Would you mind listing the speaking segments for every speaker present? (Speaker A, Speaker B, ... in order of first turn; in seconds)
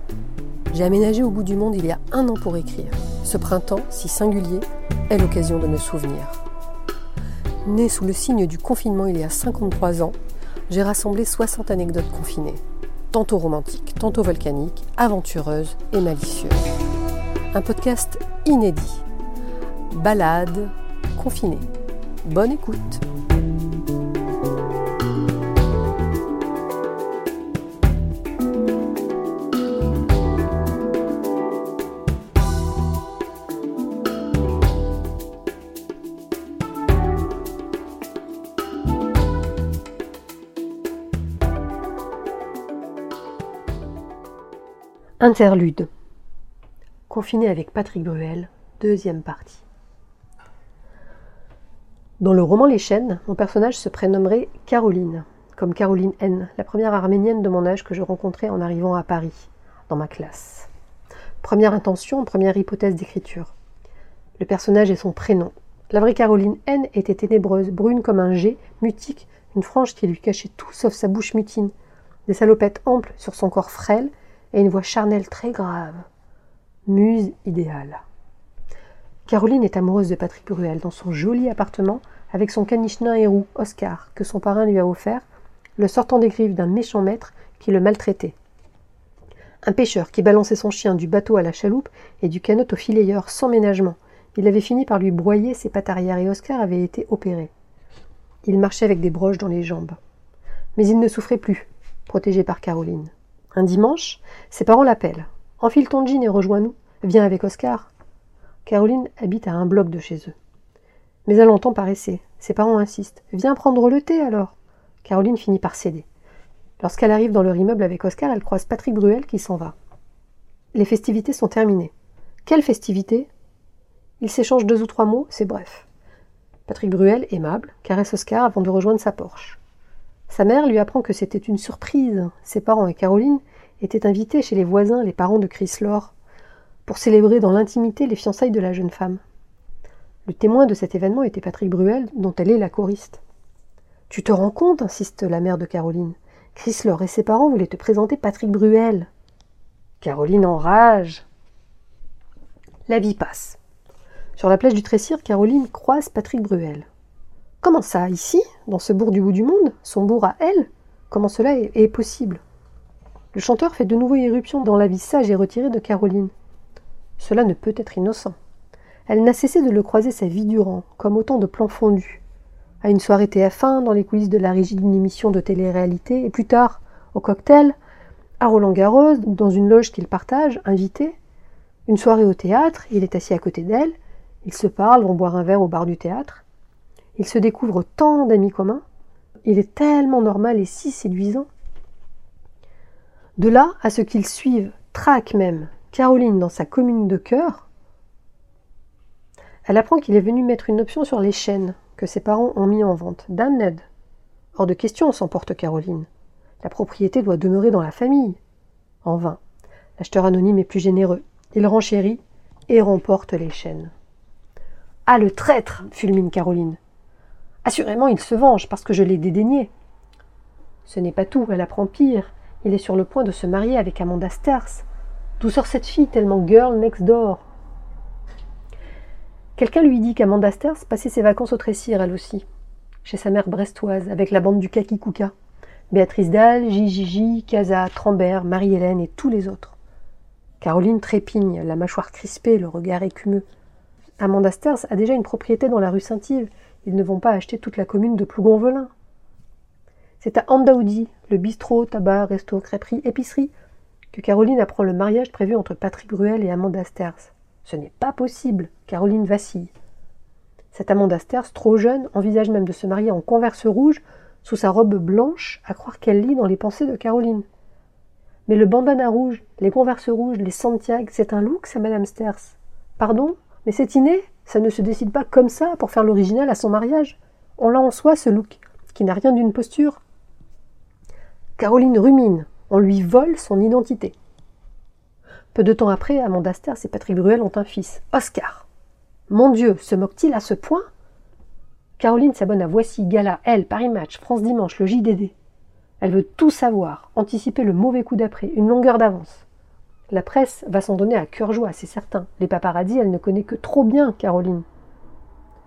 Speaker A: 0.7-6.4, 7.6-10.2, 10.7-16.7, 17.5-19.0, 19.9-21.7, 22.2-23.0, 45.2-45.9, 47.1-49.6, 52.2-60.7, 61.4-63.5, 64.4-71.7, 72.3-76.0, 76.9-78.0, 79.3-85.2, 85.8-88.3, 89.6-97.5, 98.4-100.0, 100.8-107.9, 108.6-110.3, 111.2-116.0, 116.8-119.7, 120.7-121.9, 122.5-123.3, 124.2-125.8, 126.7-129.6, 130.3-136.1, 136.8-139.2, 140.2-143.2, 144.1-149.1, 150.0-151.2, 152.9-153.6, 154.4-156.9, 157.6-162.4, 163.3-166.3, 167.2-168.3, 169.1-172.2, 172.8-177.7, 178.4-181.2, 181.9-186.4, 187.2-188.8, 189.4-191.5, 193.4-197.7, 199.7-203.8, 204.5-206.1, 206.6-208.4, 209.0-209.4, 210.0-213.9, 215.1-216.8, 217.6-219.7, 220.8-224.8, 225.4-227.4, 229.6-232.4, 233.0-235.3, 235.9-239.8, 240.6-243.4, 244.2-248.9, 250.2-253.5, 254.1-259.7, 260.7-267.4, 268.5-280.0, 281.6-284.1, 285.5-288.7, 289.3-290.9, 292.0-295.3, 296.0-299.4, 300.1-304.6